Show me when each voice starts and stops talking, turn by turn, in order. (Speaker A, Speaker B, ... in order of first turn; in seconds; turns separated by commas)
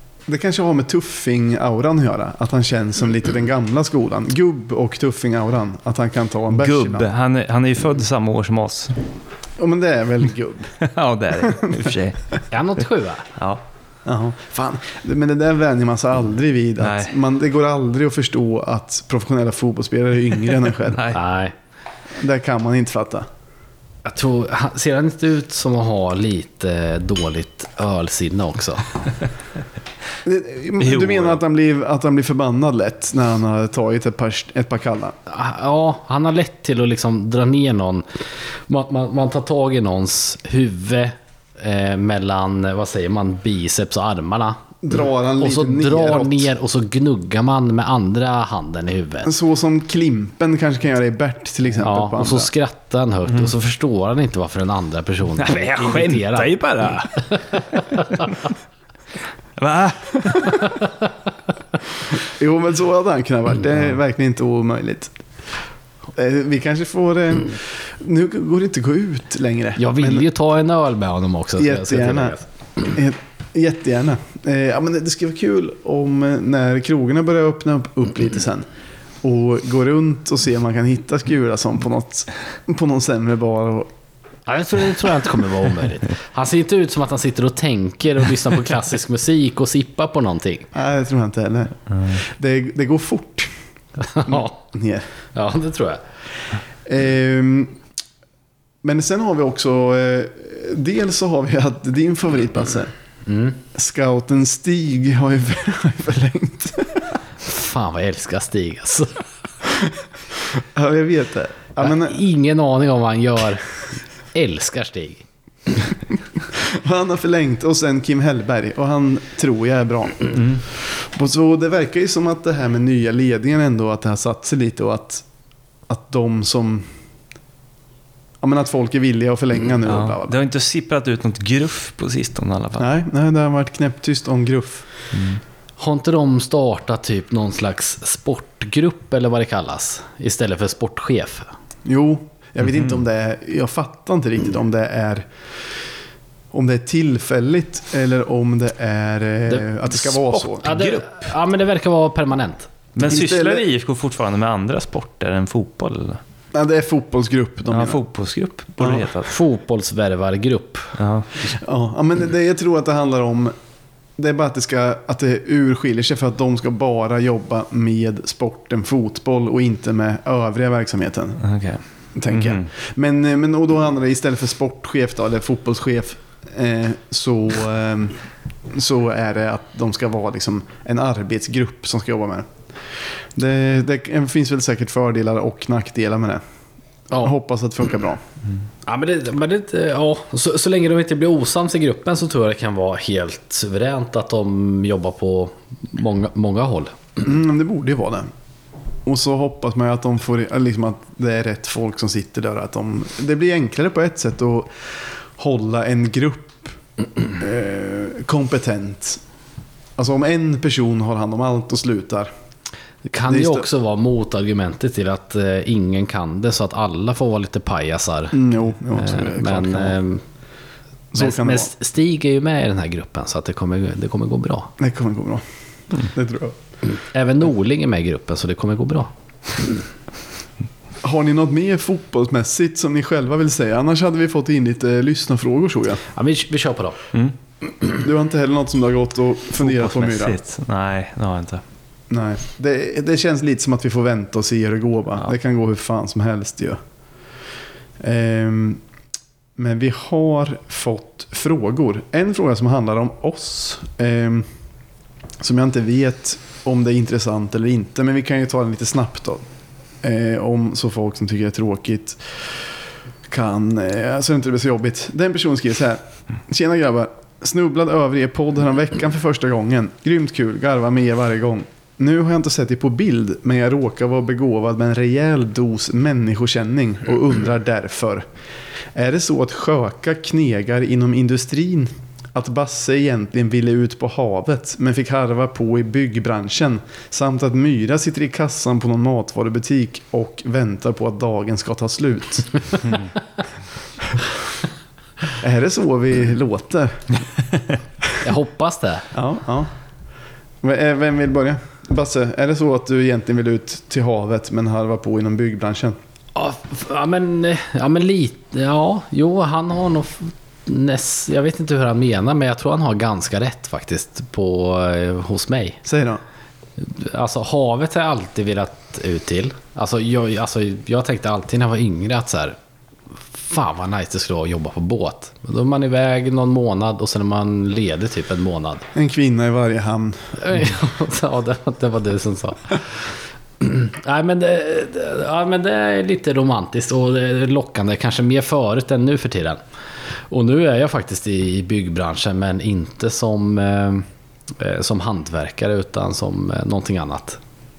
Speaker A: 0.3-7.1, Speaker B: 6.5-9.0, Speaker A: 9.6-10.7, Speaker B: 10.8-12.4, Speaker A: 11.4-11.9, Speaker C: 12.5-13.3, Speaker B: 13.4-13.6, Speaker A: 14.1-21.1, Speaker B: 16.8-17.1, Speaker B: 20.9-21.2, Speaker C: 21.1-21.5, Speaker A: 22.2-23.3, Speaker C: 24.1-28.9, Speaker A: 30.2-35.2, Speaker B: 30.8-31.4, Speaker C: 35.3-38.1, Speaker C: 38.7-44.6, Speaker A: 44.8-46.5, Speaker C: 45.4-49.3, Speaker A: 49.2-52.5, Speaker C: 51.8-58.2, Speaker B: 55.4-58.3, Speaker B: 59.6-60.8, Speaker A: 62.1-65.1, Speaker A: 66.2-70.3, Speaker C: 69.8-72.5, Speaker A: 71.6-78.7, Speaker A: 79.2-83.9, Speaker C: 84.5-90.7, Speaker A: 90.7-93.5, Speaker C: 94.0-94.5, Speaker A: 94.2-95.1, Speaker C: 95.3-96.0, Speaker A: 96.9-97.8, Speaker A: 98.8-102.9, Speaker C: 103.3-103.6, Speaker A: 103.7-107.2, Speaker C: 107.5-109.2, Speaker A: 109.7-112.2, Speaker C: 111.8-113.6, Speaker C: 114.3-115.2, Speaker A: 116.5-125.2, Speaker B: 120.3-120.6, Speaker A: 125.9-126.9, Speaker A: 128.4-130.4, Speaker B: 129.9-132.9, Speaker A: 132.8-134.9, Speaker B: 135.1-135.4, Speaker C: 135.8-141.5, Speaker A: 141.9-145.3, Speaker B: 142.6-142.9, Speaker A: 146.5-150.7, Speaker C: 149.5-152.7, Speaker B: 150.7-151.1, Speaker B: 152.9-156.2, Speaker A: 153.0-153.7, Speaker A: 156.5-158.0, Speaker B: 157.7-159.3, Speaker A: 158.8-159.1, Speaker C: 159.2-160.9, Speaker B: 161.0-161.3, Speaker A: 161.5-163.5, Speaker A: 164.2-171.4, Speaker B: 171.4-172.7, Speaker A: 172.2-182.5, Speaker A: 183.3-186.4, Speaker A: 187.1-188.2, Speaker C: 188.8-197.0, Speaker A: 197.2-198.3, Speaker A: 199.1-206.8, Speaker A: 207.4-209.2, Speaker A: 210.0-212.3, Speaker C: 213.1-218.4, Speaker A: 213.3-213.7, Speaker A: 218.3-220.0, Speaker C: 218.9-220.2, Speaker A: 221.1-221.7, Speaker C: 221.2-224.7, Speaker A: 224.8-225.4, Speaker A: 226.0-226.6, Speaker C: 227.1-229.1, Speaker A: 231.0-236.0, Speaker C: 236.2-237.0, Speaker A: 237.9-240.4, Speaker B: 239.6-241.6, Speaker A: 242.1-246.8, Speaker A: 248.0-248.8, Speaker A: 249.6-254.5, Speaker A: 255.4-259.4, Speaker A: 260.0-262.6, Speaker A: 263.3-278.2, Speaker A: 278.9-292.9, Speaker A: 295.4-297.1, Speaker C: 298.2-299.1, Speaker A: 299.1-299.7, Speaker A: 300.6-306.0, Speaker C: 306.4-315.8, Speaker A: 315.9-316.2, Speaker C: 316.8-322.6, Speaker C: 323.4-328.9, Speaker A: 328.9-330.6, Speaker C: 330.4-332.8, Speaker C: 333.6-339.6, Speaker C: 340.3-347.4